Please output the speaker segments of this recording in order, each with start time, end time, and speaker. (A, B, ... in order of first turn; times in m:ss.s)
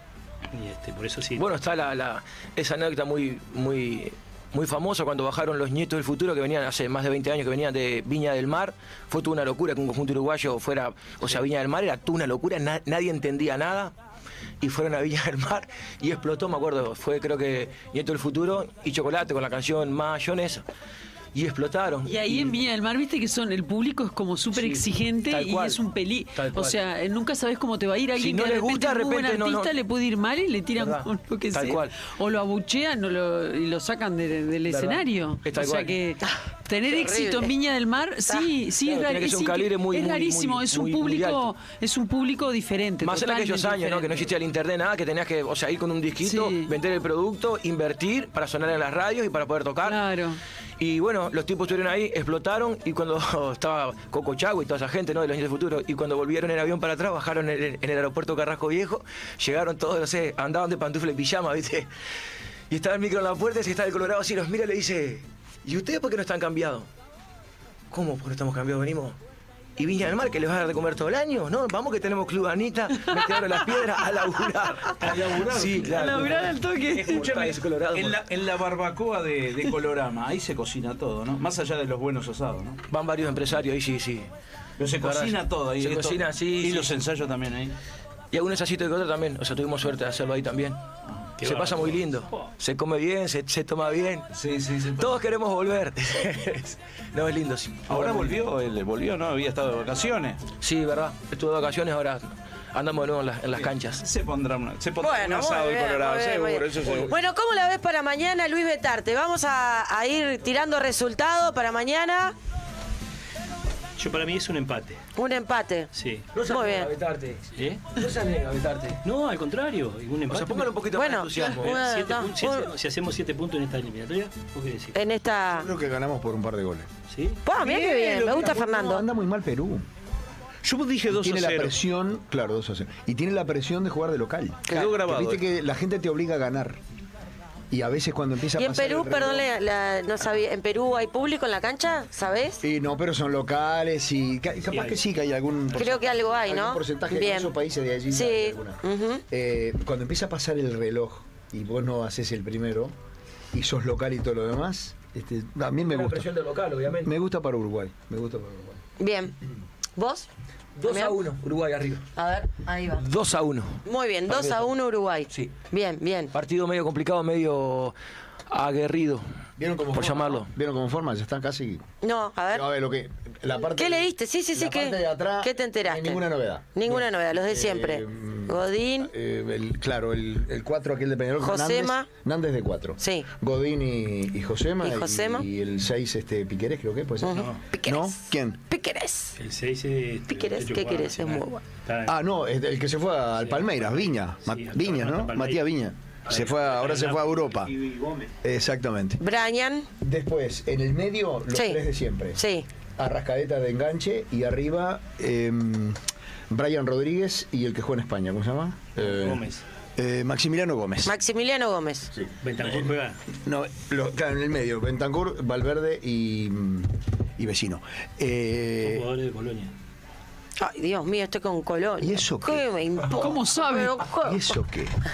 0:00.5-0:01.5 A
0:01.4-0:13.9 B
0:14.6-0:20.6 B
0:21.3-0:22.6 B
0:22.0-0:44.3 C
0:24.5-0:25.8 B
0:26.3-0:26.8 B
0:28.2-0:29.7 B
0:30.8-0:31.9 B
0:34.7-0:35.9 B
0:36.9-0:37.5 D
0:38.8-0:41.5 B
0:43.0-0:50.0 B
0:46.2-0:46.7 C
0:49.8-0:50.4 C
0:50.8-1:01.9 B
1:02.7-1:06.9 B
1:07.9-1:09.2 B
1:09.8-1:18.2 B
1:13.0-1:13.8 C
1:15.0-1:15.9 A
1:15.8-1:17.2 C
1:16.9-1:22.8 E
1:22.9-1:24.3 B
1:24.8-1:27.7 E
1:25.0-1:26.9 B
1:28.3-1:30.8 B
1:31.4-1:32.1 A
1:31.4-1:34.3 B
1:34.3-1:35.1 E
1:34.8-1:38.4 B
1:37.9-1:40.4 E
1:40.6-1:44.0 B
1:43.6-1:47.1 E
1:45.0-1:52.3 D
1:54.0-1:55.0 A
1:55.2-1:56.9 D
1:55.9-1:56.3 A
1:56.3-1:59.0 B
1:57.6-1:57.9 A
1:59.0-2:00.8 A
2:00.3-2:01.8 B
2:00.9-2:02.7 D
2:01.5-2:05.0 A
2:04.9-2:05.7 D
2:05.5-2:06.9 F
2:07.1-2:07.4 A
2:07.4-2:09.0 D
2:07.6-2:08.4 E
2:07.6-2:09.9 F
2:10.6-2:11.7 E
2:11.1-2:16.8 F
2:14.7-2:15.0 D
2:14.7-2:15.4 E
2:17.7-2:19.5 F
2:18.6-2:22.6 D
2:22.6-2:32.9 F
2:25.7-2:27.5 D
2:28.1-2:29.2 D
2:33.5-2:36.3 F
2:35.8-2:37.1 B
2:37.0-2:38.8 F
2:39.0-2:39.4 D
2:40.0-2:40.3 D
2:40.8-2:42.0 B
2:40.8-2:41.2 D
2:42.2-2:43.0 D
2:43.0-2:44.7 B
2:43.8-2:46.3 D
2:46.3-2:47.9 B
2:48.5-2:49.2 B
2:49.6-2:51.8 F
2:49.9-2:50.5 B
2:52.0-2:52.7 D
2:52.5-3:08.6 F
2:53.7-2:56.2 D
2:56.7-2:59.1 D
3:01.4-3:02.1 D
3:03.0-3:03.3 D
3:04.8-3:05.4 D
3:07.2-3:09.4 D
3:07.3-3:07.6 A
3:09.4-3:12.2 A
3:10.3-3:11.7 D
3:12.0-3:17.8 F
3:13.4-3:15.6 A
3:16.2-3:18.3 A
3:18.4-3:19.2 F
3:19.2-3:19.9 D
3:20.0-3:22.4 F
3:21.5-3:21.8 D
3:22.4-3:22.7 D
3:23.0-3:26.0 F
3:26.5-3:31.2 F
3:29.0-3:29.6 A
3:31.0-3:32.1 D
3:32.4-3:33.2 A
3:32.6-3:32.8 F
3:33.3-3:39.1 F
3:38.8-3:39.7 A
3:40.6-3:44.6 D
3:42.0-3:42.6 F
3:43.1-3:44.0 C
3:44.2-3:44.9 F